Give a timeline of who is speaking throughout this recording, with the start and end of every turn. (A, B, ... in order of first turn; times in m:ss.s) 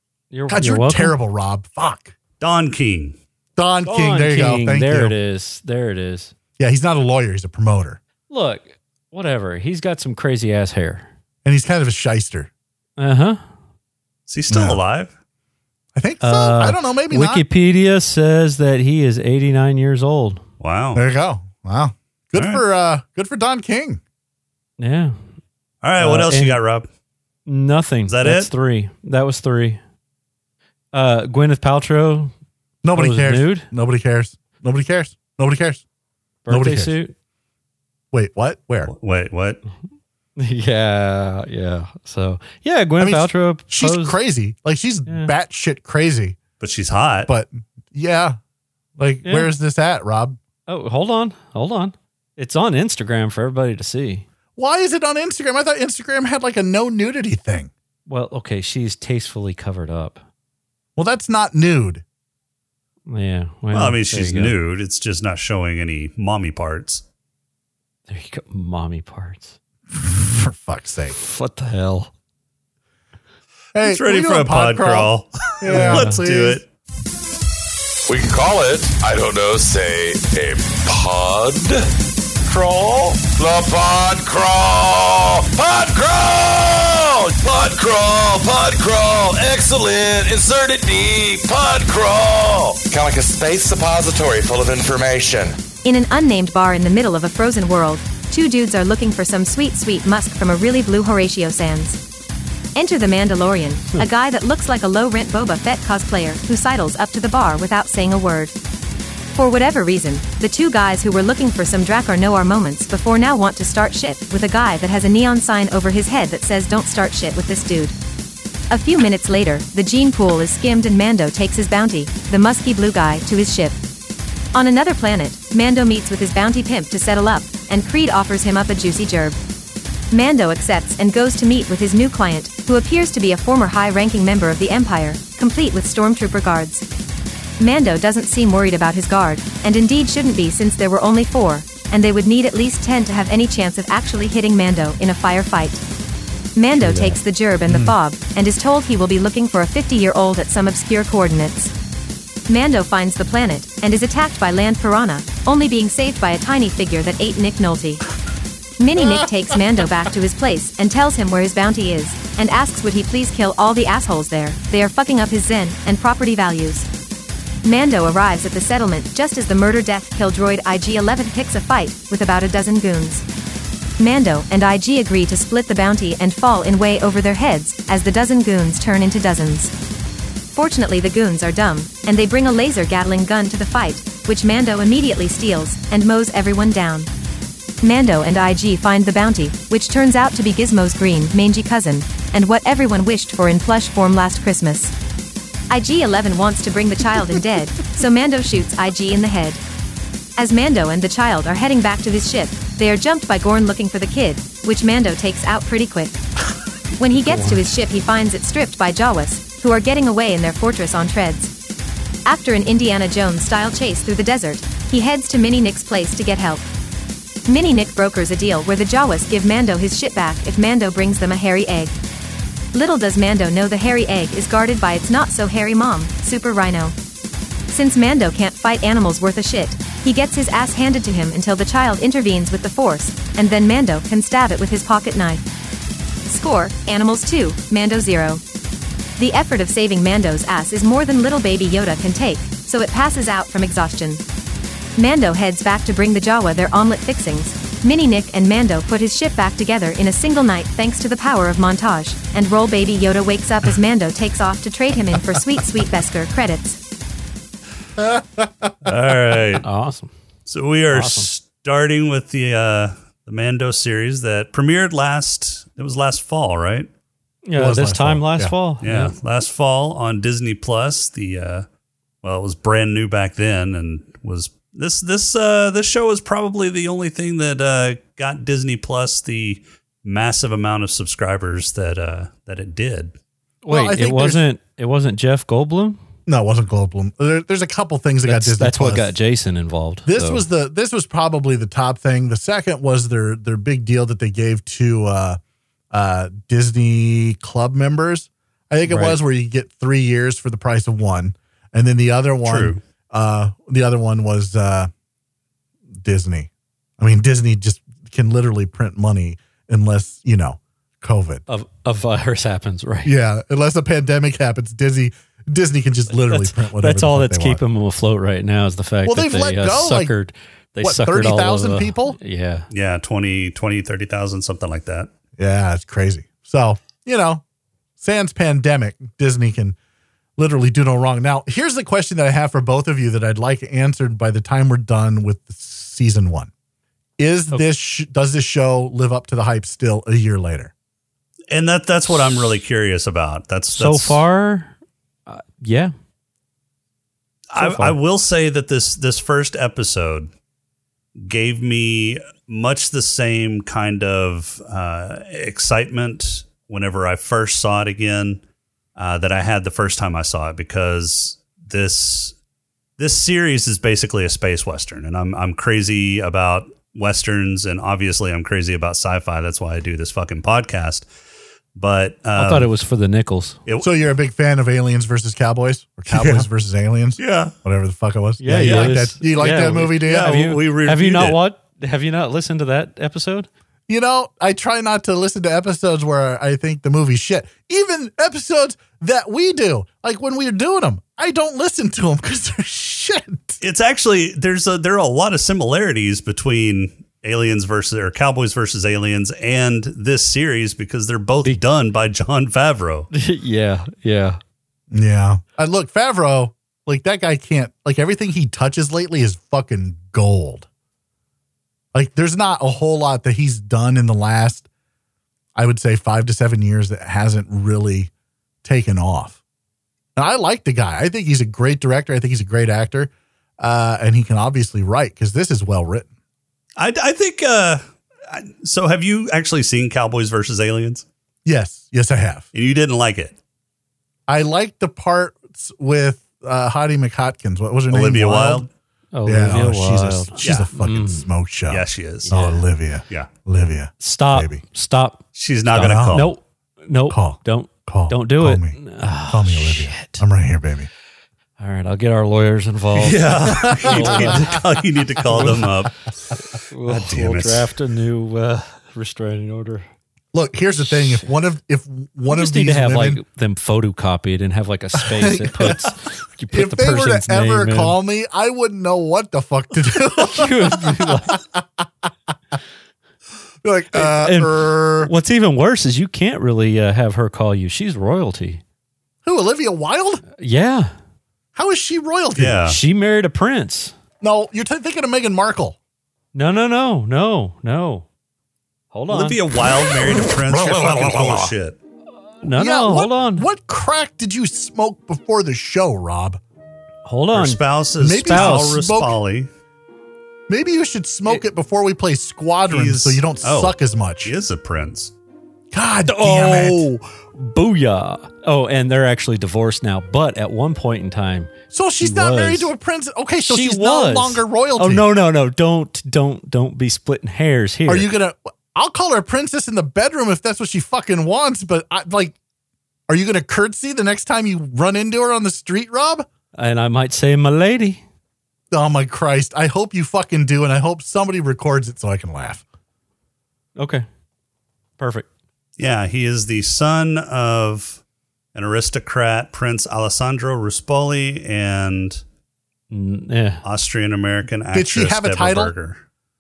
0:00.3-0:01.2 A
0:00.5-0:02.2 B
0:02.4-0:03.2 C
0:03.6-0:05.2 B
0:03.9-0:06.3 A
0:06.6-0:08.0 B
0:08.3-0:11.1 A
0:11.4-0:12.5 B
0:13.0-0:13.4 A
0:14.3-0:15.1 C
0:14.5-0:14.8 B
0:16.0-0:17.5 B
0:16.2-0:20.4 A
0:20.6-0:21.0 C
0:20.9-0:24.0 B
0:22.4-0:22.6 C
0:24.8-0:25.2 A
0:25.8-0:26.9 C
0:26.0-0:26.6 A
0:27.5-0:29.8 A
0:28.1-0:28.5 C
0:30.9-0:32.3 A
0:32.8-0:35.8 B
0:32.9-0:33.7 A
0:36.4-0:37.1 A
0:36.5-0:36.9 B
0:38.1-0:38.9 B
0:38.8-0:39.6 C
0:40.4-0:44.2 A
0:43.0-0:46.4 B
0:45.1-0:45.3 A
0:46.6-0:47.3 C
0:47.3-0:48.4 B
0:49.0-0:50.4 B
0:49.2-0:49.5 A
0:50.7-0:54.3 A
0:54.6-0:57.7 B
0:58.1-1:00.2 A
1:01.0-1:02.0 B
1:03.1-1:04.6 A
1:03.7-1:07.0 C
1:08.1-1:09.6 A
1:09.9-1:11.2 B
1:11.1-1:12.1 A
1:13.8-1:16.6 B
1:13.8-1:16.7 C
1:15.7-1:16.2 A
1:18.1-1:21.9 D
1:22.4-1:35.6 D
1:35.8-1:42.0 E
1:42.8-1:48.5 E
1:49.4-1:58.0 E
1:58.7-2:03.8 E
2:04.5-2:09.4 E
2:10.1-2:16.8 E
2:17.6-2:25.8 E
2:26.6-2:31.7 E
2:26.8-2:27.2 A
2:32.5-2:38.1 E
2:38.8-2:46.9 E
2:47.6-2:53.2 E
2:54.0-2:59.7 E
3:00.6-3:07.1 E
3:07.8-3:14.9 E
3:15.7-3:19.6 E
3:20.4-3:26.2 E
3:27.0-3:31.5 E
3:27.1-3:27.6 A
3:32.3-3:36.6 E
3:37.5-3:41.9 E
3:42.7-3:47.0 E
3:47.7-3:55.4 E
3:56.3-3:58.4 E
3:59.2-4:04.2 E
4:05.0-4:16.8 E
4:18.0-4:18.4 B
4:18.8-4:19.6 C
4:19.6-4:20.1 A
4:20.5-4:26.9 C
4:20.9-4:21.3 A
4:27.5-4:29.1 A
4:27.6-4:28.5 B
4:28.8-4:31.7 C
4:32.2-4:43.1 C
4:43.6-4:46.0 A
4:43.7-4:44.4 B
4:46.3-4:49.1 B
4:48.3-4:50.5 A
4:50.1-4:55.4 B
4:55.9-5:04.9 B
4:58.9-4:59.2 A
5:02.4-5:02.8 C
5:06.0-5:11.4 B
5:11.5-5:13.2 A
5:13.0-5:17.6 B
5:16.1-5:22.7 A
5:19.0-5:20.2 B
5:20.8-5:22.2 B
5:22.7-5:25.1 C
5:25.4-5:27.4 B
5:28.0-5:29.8 B
5:30.4-5:36.5 B
5:37.2-5:40.7 B
5:41.5-5:44.2 C
5:43.7-5:44.8 A
5:45.3-5:45.9 A
5:47.5-5:50.3 C
5:47.6-5:48.0 A
5:51.2-5:58.4 C
5:59.0-6:02.4 C
6:03.0-6:11.1 C
6:11.8-6:12.7 C
6:12.4-6:13.6 A
6:13.8-6:20.5 B
6:16.1-6:16.5 C
6:17.2-6:17.5 C
6:18.4-6:23.5 A
6:18.5-6:19.0 C
6:20.0-6:21.4 C
6:23.9-6:33.6 B
6:33.6-6:43.1 C
6:43.1-6:44.4 A
6:44.9-6:50.7 B
6:51.9-6:54.7 B
6:55.6-6:58.1 B
6:58.6-6:59.4 B
7:00.2-7:06.1 B
7:06.8-7:11.0 C
7:11.4-7:12.5 B
7:12.5-7:13.4 C
7:14.3-7:18.7 B
7:17.9-7:18.7 C
7:19.1-7:21.3 A
7:19.2-7:24.6 B
7:20.4-7:20.7 C
7:21.7-7:22.5 C
7:22.2-7:22.6 A
7:24.0-7:25.2 A
7:25.4-7:26.3 C
7:25.7-7:26.3 B
7:26.1-7:30.2 A
7:27.1-7:28.8 B
7:29.3-7:30.9 B
7:31.6-7:34.6 A
7:33.0-7:36.1 C
7:34.0-7:34.5 B
7:35.3-7:35.7 A
7:36.7-7:39.9 A
7:36.9-7:37.7 C
7:40.3-7:43.2 B
7:42.3-7:48.0 A
7:45.0-7:45.9 B
7:46.5-7:51.8 B
7:50.2-7:51.4 A
7:53.6-7:55.1 B
7:53.9-7:58.6 A
7:59.2-8:00.2 B
8:00.4-8:00.9 A
8:01.6-8:02.6 B
8:02.4-8:02.8 C
8:02.6-8:03.9 A
8:04.2-8:05.8 B
8:06.3-8:08.1 A
8:08.9-8:09.4 A
8:09.1-8:11.8 C
8:12.4-8:13.5 A
8:12.5-8:16.4 B
8:17.0-8:17.6 A
8:17.3-8:19.5 C
8:18.0-8:19.2 B
8:18.2-8:18.7 A
8:20.5-8:24.3 B
8:22.7-8:25.1 C
8:25.7-8:26.9 B
8:26.0-8:32.7 A
8:31.7-8:35.1 B
8:33.4-8:38.1 A
8:37.9-8:42.4 B
8:43.1-8:46.3 B
8:46.6-8:48.0 A
8:48.7-8:52.6 B
8:53.8-8:54.0 A
8:55.0-8:55.3 A
8:55.8-8:58.0 C
8:58.6-9:02.2 C
9:02.9-9:03.6 A
9:03.6-9:06.0 C
9:04.7-9:05.7 B